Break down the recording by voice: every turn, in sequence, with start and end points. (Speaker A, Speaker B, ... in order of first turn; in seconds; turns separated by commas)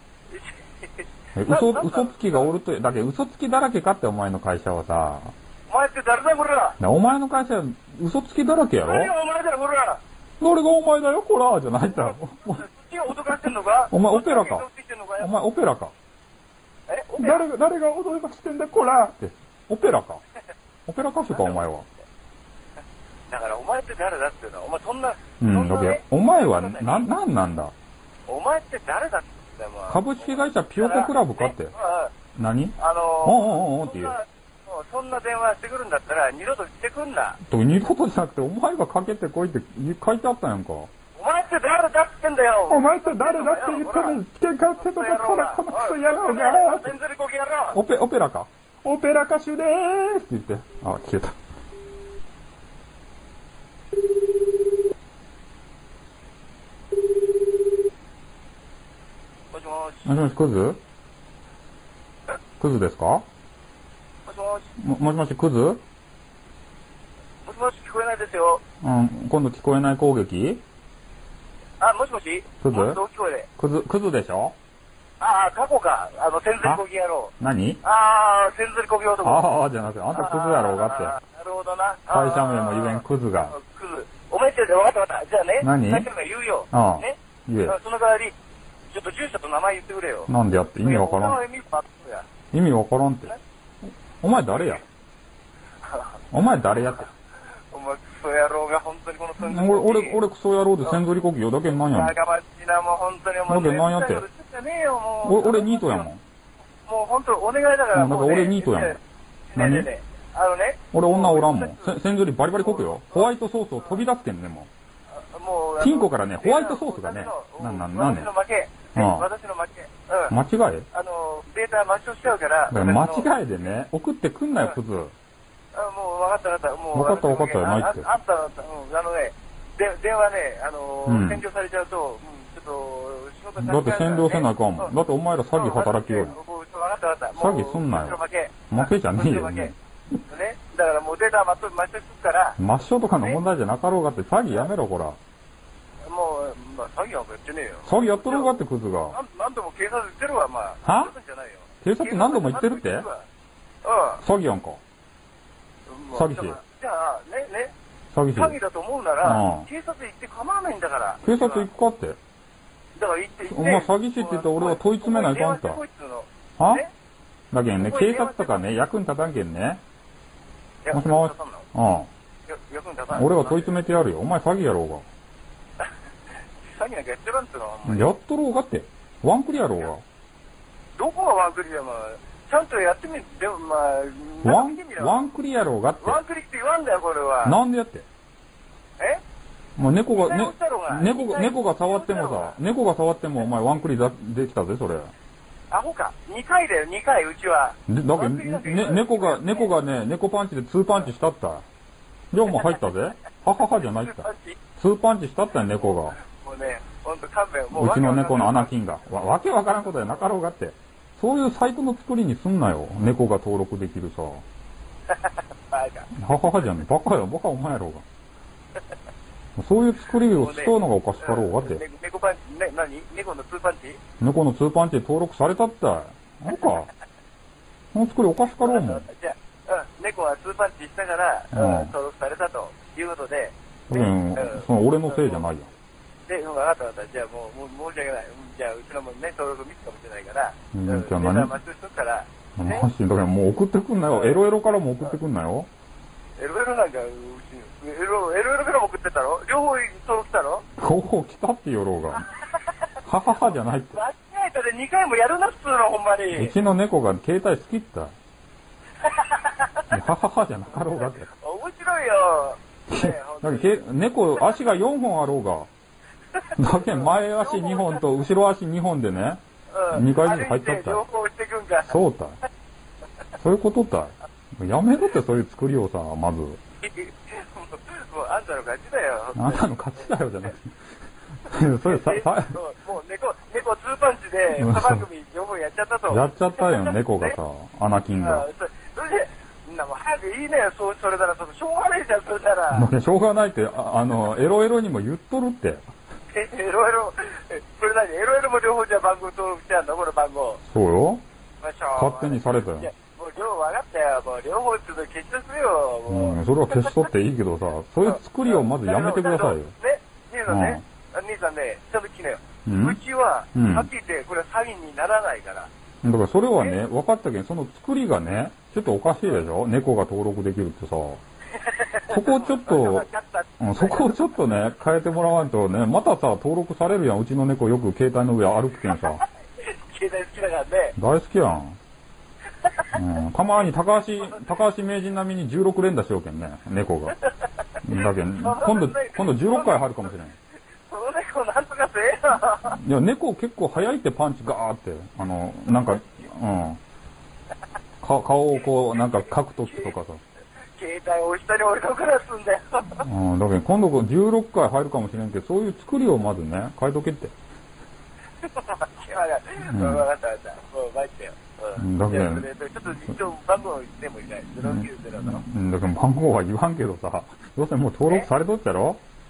Speaker A: 0.3-2.5, Speaker B: 1.4-5.3, Speaker A: 5.7-6.8, Speaker B: 6.8-9.1, Speaker A: 8.8-10.0, Speaker B: 10.4-12.7, Speaker A: 11.9-15.3, Speaker B: 13.2-14.7, Speaker B: 15.2-15.9, Speaker A: 16.9-17.4, Speaker B: 17.2-20.2, Speaker B: 20.9-21.9, Speaker A: 21.3-21.7, Speaker A: 23.3-27.1, Speaker B: 25.4-27.7, Speaker A: 28.3-32.1, Speaker B: 29.9-31.7, Speaker B: 32.4-34.2, Speaker A: 32.8-37.4, Speaker B: 37.5-40.9, Speaker A: 41.1-44.2, Speaker B: 42.7-46.9, Speaker A: 44.8-47.8, Speaker B: 47.7-51.4, Speaker A: 59.5-60.3, Speaker B: 60.0-60.8, Speaker B: 62.6-63.2, Speaker A: 64.2-64.7, Speaker B: 64.8-65.8, Speaker A: 67.4-68.6, Speaker B: 68.8-70.6, Speaker A: 71.8-73.5, Speaker B: 72.6-73.0, Speaker B: 73.6-74.5, Speaker A: 75.2-79.5, Speaker B: 77.4-77.8, Speaker B: 79.2-81.2, Speaker A: 80.1-88.3, Speaker B: 82.1-83.5, Speaker B: 85.6-86.1, Speaker B: 86.7-87.8, Speaker A: 88.9-90.3, Speaker B: 90.3-91.4, Speaker A: 90.8-92.3, Speaker B: 92.5-93.3, Speaker B: 94.2-94.8, Speaker A: 94.3-94.8, Speaker A: 95.8-96.1, Speaker B: 96.3-97.1, Speaker A: 97.7-100.2, Speaker B: 99.4-102.1, Speaker A: 101.8-106.1, Speaker B: 103.5-104.2, Speaker B: 105.2-106.2, Speaker A: 106.8-109.0, Speaker B: 107.9-109.0, Speaker A: 109.5-112.0, Speaker B: 109.5-109.9, Speaker B: 110.9-114.7, Speaker A: 112.6-113.3, Speaker A: 115.2-120.3, Speaker B: 115.8-118.3, Speaker B: 118.9-119.3, Speaker B: 120.3-120.9, Speaker A: 120.9-123.3, Speaker B: 122.7-125.1, Speaker A: 125.7-134.9, Speaker B: 126.9-128.1, Speaker B: 131.1-131.4, Speaker B: 133.6-136.3, Speaker A: 135.5-139.7, Speaker B: 137.3-138.2, Speaker B: 138.7-139.8, Speaker A: 140.3-142.6, Speaker B: 142.6-145.2, Speaker A: 146.1-148.6, Speaker B: 147.8-149.2, Speaker A: 149.1-153.2, Speaker B: 150.8-151.1, Speaker B: 151.8-153.1, Speaker A: 153.8-154.2, Speaker B: 154.2-154.8, Speaker A: 155.9-157.7, Speaker B: 156.1-156.6, Speaker B: 158.1-158.6, Speaker A: 158.3-161.7, Speaker B: 159.2-159.7, Speaker B: 161.2-162.2, Speaker A: 162.9-166.9, Speaker B: 163.5-165.8, Speaker B: 166.6-166.8, Speaker B: 167.5-169.8, Speaker A: 167.7-168.7, Speaker A: 170.8-171.7, Speaker B: 170.9-172.1, Speaker A: 172.5-173.7, Speaker B: 173.1-175.0, Speaker A: 176.8-178.1, Speaker B: 177.8-180.0, Speaker A: 181.0-185.3, Speaker B: 184.4-186.2, Speaker A: 186.0-187.6, Speaker B: 187.4-188.1, Speaker B: 189.8-195.1, Speaker A: 190.1-192.6, Speaker A: 195.7-199.7, Speaker B: 197.9-201.6, Speaker B: 202.3-206.2, Speaker A: 204.0-204.6, Speaker A: 205.7-208.7, Speaker B: 207.7-214.4, Speaker A: 215.1-216.1, Speaker B: 216.1-218.0, Speaker B: 219.6-221.8, Speaker A: 220.4-224.0, Speaker B: 224.2-226.9, Speaker B: 227.9-229.0, Speaker A: 228.5-235.5, Speaker B: 231.5-231.9, Speaker B: 233.9-235.7, Speaker A: 236.3-242.9, Speaker B: 240.7-241.5, Speaker B: 242.6-245.7, Speaker A: 244.1-244.4, Speaker A: 246.4-250.6, Speaker B: 250.8-252.2, Speaker B: 253.1-254.0, Speaker A: 253.3-256.5, Speaker B: 256.3-258.1, Speaker A: 259.0-259.9, Speaker B: 259.9-261.3, Speaker A: 261.3-263.8, Speaker B: 262.9-265.7, Speaker A: 266.5-268.0, Speaker B: 266.6-269.4, Speaker A: 269.7-271.9, Speaker B: 269.9-271.0, Speaker B: 271.8-272.4, Speaker B: 273.4-276.6, Speaker A: 276.8-280.5, Speaker B: 279.3-280.7, Speaker B: 281.4-282.6, Speaker A: 281.8-287.4, Speaker B: 284.5-285.1, Speaker B: 286.1-288.4, Speaker A: 288.2-292.9, Speaker B: 292.7-295.9, Speaker A: 296.3-300.6, Speaker B: 300.7-301.2, Speaker A: 301.6-307.1, Speaker B: 301.9-302.9, Speaker B: 306.1-309.7, Speaker A: 308.0-315.7, Speaker B: 310.5-310.8, Speaker B: 312.6-313.0, Speaker B: 313.5-313.9, Speaker B: 316.0-321.2, Speaker A: 321.5-324.3, Speaker B: 322.1-323.1, Speaker B: 323.6-329.2, Speaker A: 328.9-330.9, Speaker B: 331.0-331.8, Speaker B: 332.9-337.2, Speaker B: 337.8-340.4, Speaker A: 337.9-340.1, Speaker A: 340.9-342.8, Speaker B: 342.7-346.8, Speaker B: 348.0-350.2, Speaker A: 348.9-349.9, Speaker A: 350.8-353.0, Speaker B: 353.0-357.3, Speaker A: 358.4-365.4, Speaker B: 359.7-360.0, Speaker B: 361.8-362.4, Speaker B: 364.6-369.0